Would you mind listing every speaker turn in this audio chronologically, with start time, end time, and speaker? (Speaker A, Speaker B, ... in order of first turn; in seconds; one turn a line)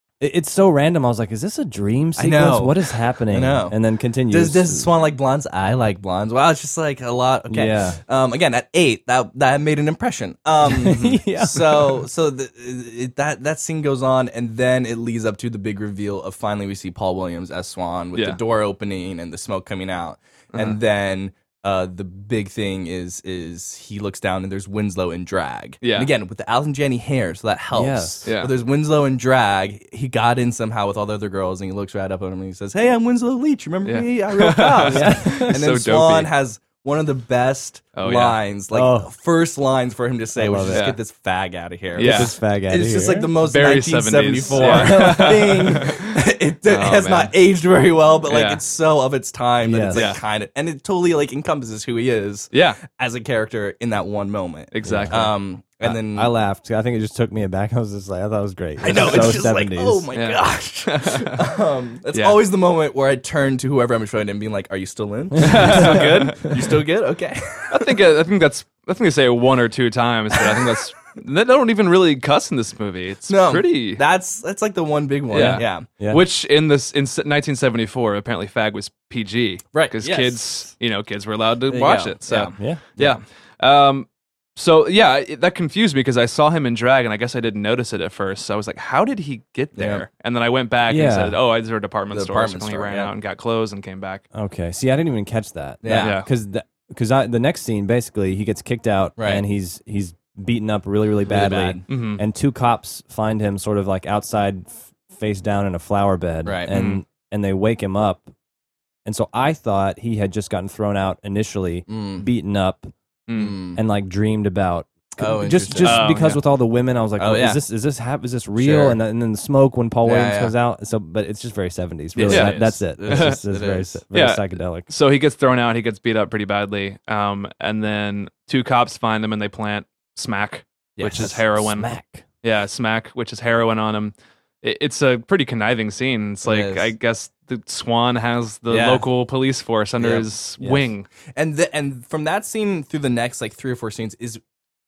Speaker A: 0.2-4.9
Speaker B: 2.2-3.8
Speaker B: 4.3-56.3
Speaker A: 7.5-8.0
Speaker A: 10.7-12.1
Speaker C: 18.1-18.4
Speaker C: 20.5-20.8
Speaker C: 25.8-26.1
Speaker A: 27.7-28.3
Speaker C: 28.3-28.5
Speaker C: 33.9-36.3
Speaker A: 34.9-35.6
Speaker C: 38.0-38.4
Speaker A: 38.7-39.1
Speaker A: 40.4-40.9
Speaker C: 40.7-41.0
Speaker C: 42.0-42.3
Speaker A: 42.0-43.3
Speaker C: 43.4-46.1
Speaker A: 44.5-45.8
Speaker C: 46.7-47.3
Speaker C: 48.3-48.6
Speaker A: 49.6-50.1
Speaker C: 50.0-50.2
Speaker C: 52.5-52.8
Speaker C: 54.7-55.3
Speaker A: 54.8-60.1
Speaker B: 58.8-68.1
Speaker C: 58.9-59.3
Speaker C: 60.1-62.4
Speaker C: 65.4-66.6
Speaker A: 65.4-66.0
Speaker C: 67.7-74.0
Speaker B: 73.3-75.9
Speaker C: 75.3-94.2
Speaker A: 75.3-76.2
Speaker B: 79.7-80.7
Speaker B: 81.7-83.2
Speaker A: 82.5-82.8
Speaker B: 89.8-90.1
Speaker A: 90.9-91.4
Speaker B: 92.1-93.1
Speaker A: 94.3-108.3
Speaker B: 95.8-96.1
Speaker C: 96.0-96.3
Speaker B: 101.3-101.8
Speaker C: 101.9-102.2
Speaker B: 106.5-106.7
Speaker C: 106.7-107.0
Speaker A: 109.0-112.9
Speaker B: 111.9-112.3
Speaker C: 113.3-113.6
Speaker B: 113.3-113.8
Speaker A: 113.8-124.9
Speaker B: 115.2-116.1
Speaker C: 115.8-116.4
Speaker B: 117.2-117.6
Speaker B: 118.6-119.0
Speaker B: 120.0-120.5
Speaker B: 122.2-124.0
Speaker C: 122.3-123.4
Speaker C: 124.1-131.9
Speaker B: 131.0-131.3
Speaker A: 131.0-132.2
Speaker C: 132.4-141.1
Speaker B: 136.4-136.9
Speaker B: 138.7-139.1
Speaker B: 140.0-140.3
Speaker A: 140.6-140.9
Speaker B: 141.3-144.4